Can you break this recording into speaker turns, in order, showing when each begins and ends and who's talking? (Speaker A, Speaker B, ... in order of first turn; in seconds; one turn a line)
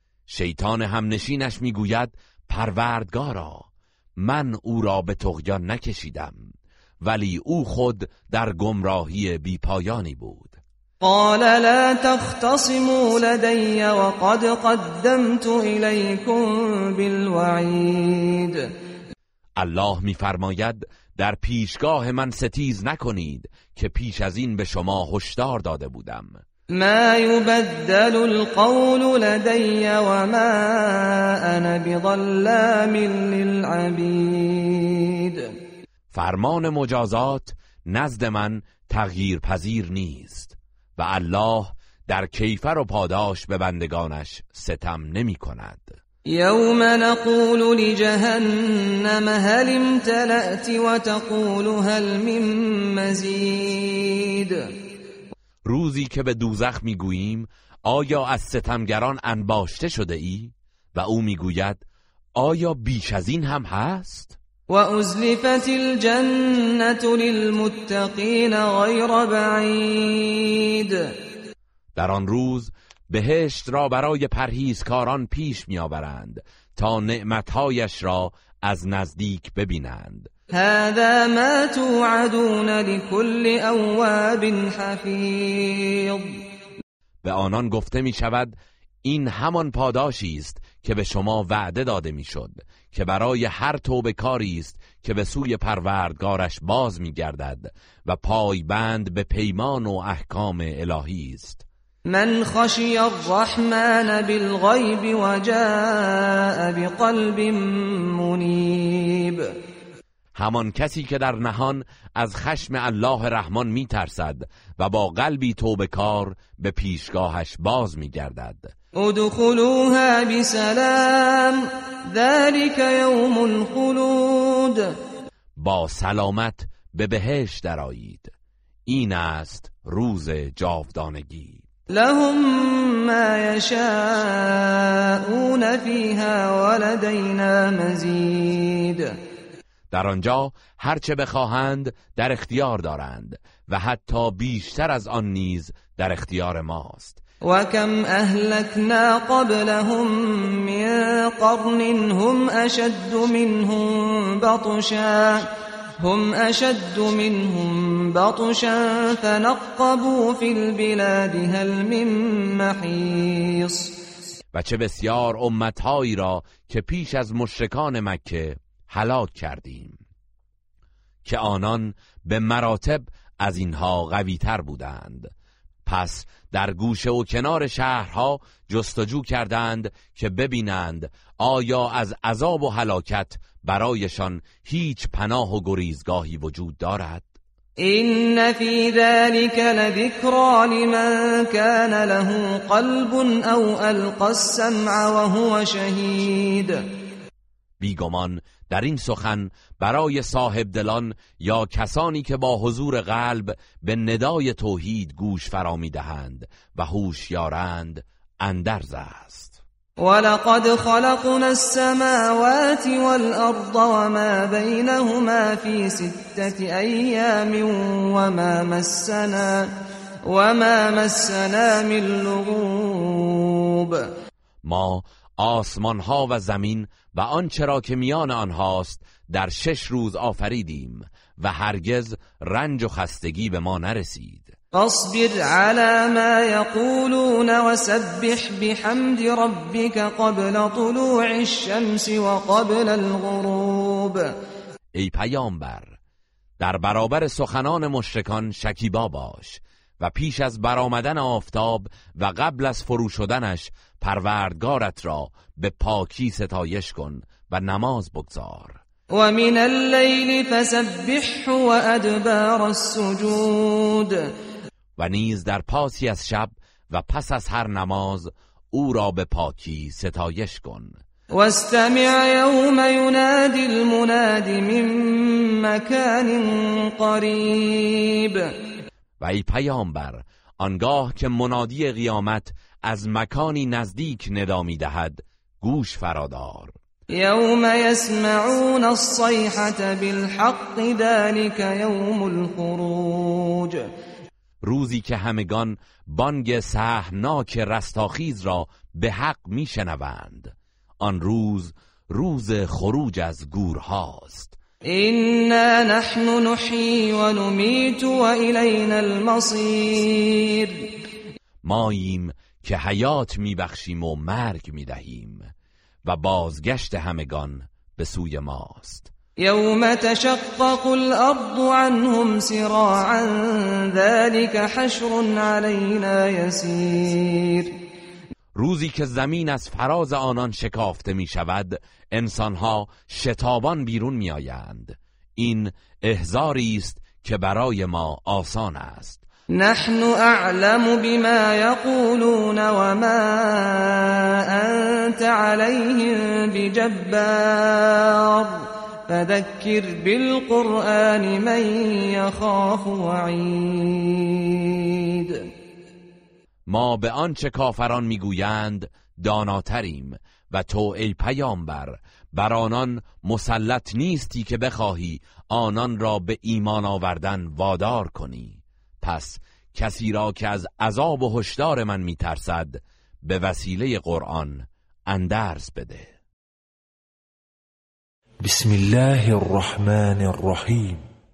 Speaker A: 0.3-6.5
Speaker A: 7.0-10.6
Speaker B: 11.0-18.7
Speaker A: 19.6-26.4
Speaker B: 26.7-35.5
Speaker A: 36.1-46.0
Speaker B: 46.3-54.7
Speaker A: 55.6-61.8
Speaker A: 62.4-64.4
Speaker B: 64.7-71.1
Speaker A: 71.9-80.3
Speaker B: 80.5-86.4
Speaker A: 87.2-101.6
Speaker B: 102.1-109.5
Speaker A: 110.3-118.7
Speaker B: 119.0-124.9
Speaker A: 125.6-128.3
Speaker A: 128.9-131.6
Speaker B: 131.9-139.1
Speaker A: 139.9-147.2
Speaker B: 147.4-155.5
Speaker B: 156.0-163.9
Speaker A: 164.5-170.0
Speaker A: 171.2-175.3
Speaker A: 175.8-187.2
Speaker B: 187.8-196.8
Speaker A: 197.8-209.6
Speaker B: 210.0-219.7
Speaker B: 220.2-224.1
Speaker A: 224.6-234.5
Speaker B: 234.7-244.3
Speaker A: 244.9-245.9
Speaker A: 246.6-258.8
Speaker B: 259.1-264.2
Speaker A: 265.0-270.9
Speaker B: 271.3-278.5
Speaker A: 279.2-286.7
Speaker B: 287.1-293.9
Speaker A: 294.6-304.6
Speaker B: 304.9-310.9
Speaker A: 311.6-315.5
Speaker A: 316.0-319.1
Speaker B: 319.4-327.7
Speaker A: 328.5-339.2
Speaker B: 339.5-355.5
Speaker A: 356.7-376.1
Speaker C: 378.4-381.0